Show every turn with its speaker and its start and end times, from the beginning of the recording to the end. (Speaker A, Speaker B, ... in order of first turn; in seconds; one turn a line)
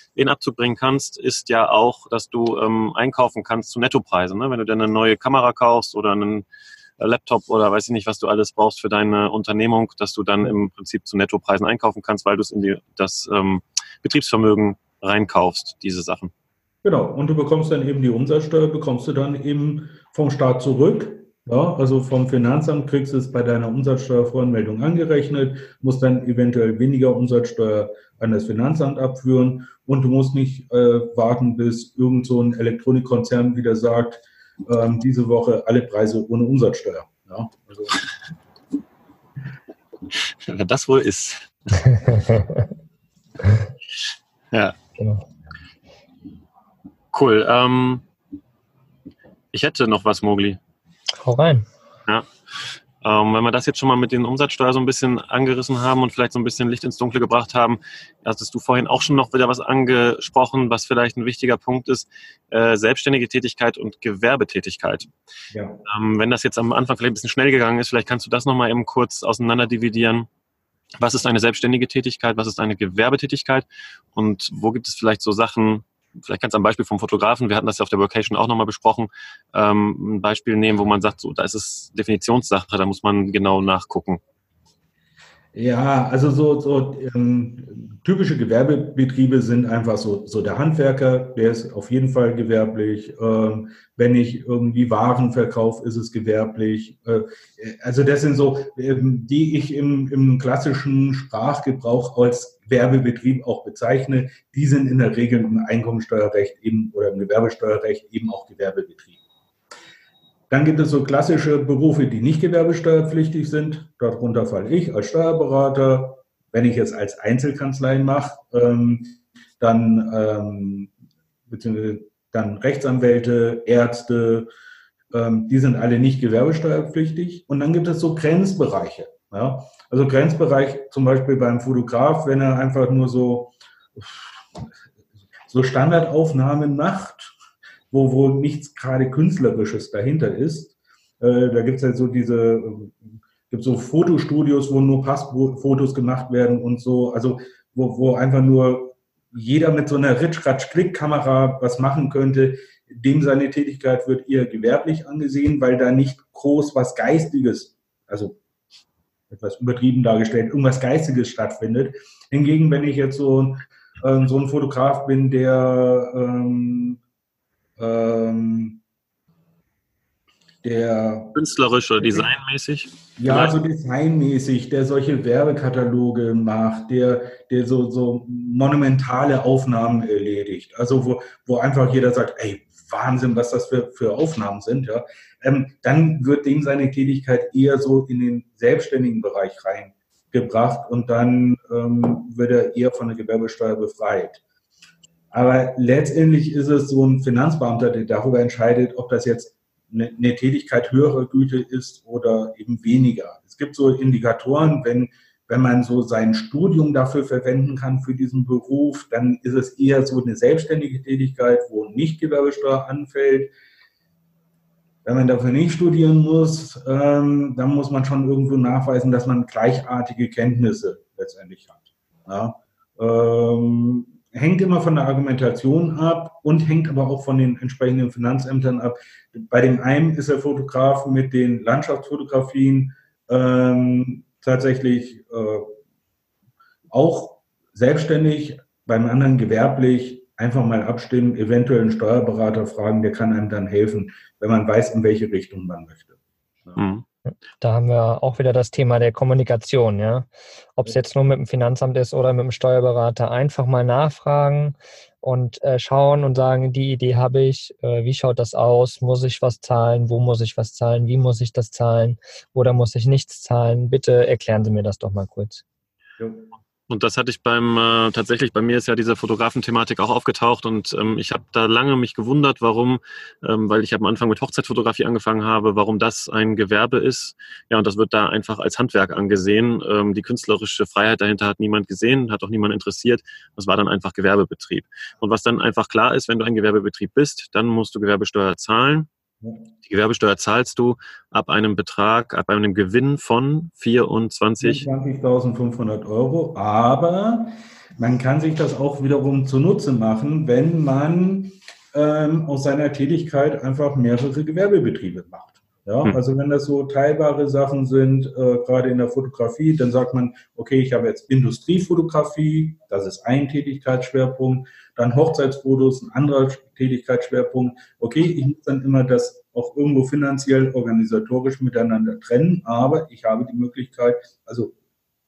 Speaker A: 0.1-6.4
Speaker A: 7.0-16.3
Speaker B: 16.8-38.0
Speaker A: 40.3-41.9
Speaker C: 42.1-42.4
Speaker C: 45.0-45.2
Speaker A: 47.1-48.0
Speaker A: 49.5-50.6
Speaker C: 51.2-51.6
Speaker A: 53.0-65.1
Speaker B: 65.5-65.8
Speaker A: 65.8-70.3
Speaker A: 71.0-84.2
Speaker B: 85.5-109.2
Speaker B: 110.5-120.9
Speaker B: 121.5-124.5
Speaker B: 125.1-134.7
Speaker B: 135.5-137.3
Speaker B: 137.9-158.4
Speaker B: 159.3-167.0
Speaker B: 167.8-168.8
Speaker B: 170.6-171.3
Speaker A: 171.3-173.5
Speaker B: 172.0-172.3
Speaker B: 173.2-194.4
Speaker B: 195.3-213.5
Speaker B: 215.0-235.7
Speaker B: 236.9-246.8
Speaker A: 246.8-247.0
Speaker C: 247.2-265.6
Speaker B: 266.2-266.5
Speaker A: 266.9-289.1
Speaker A: 289.8-294.8
Speaker B: 294.6-324.7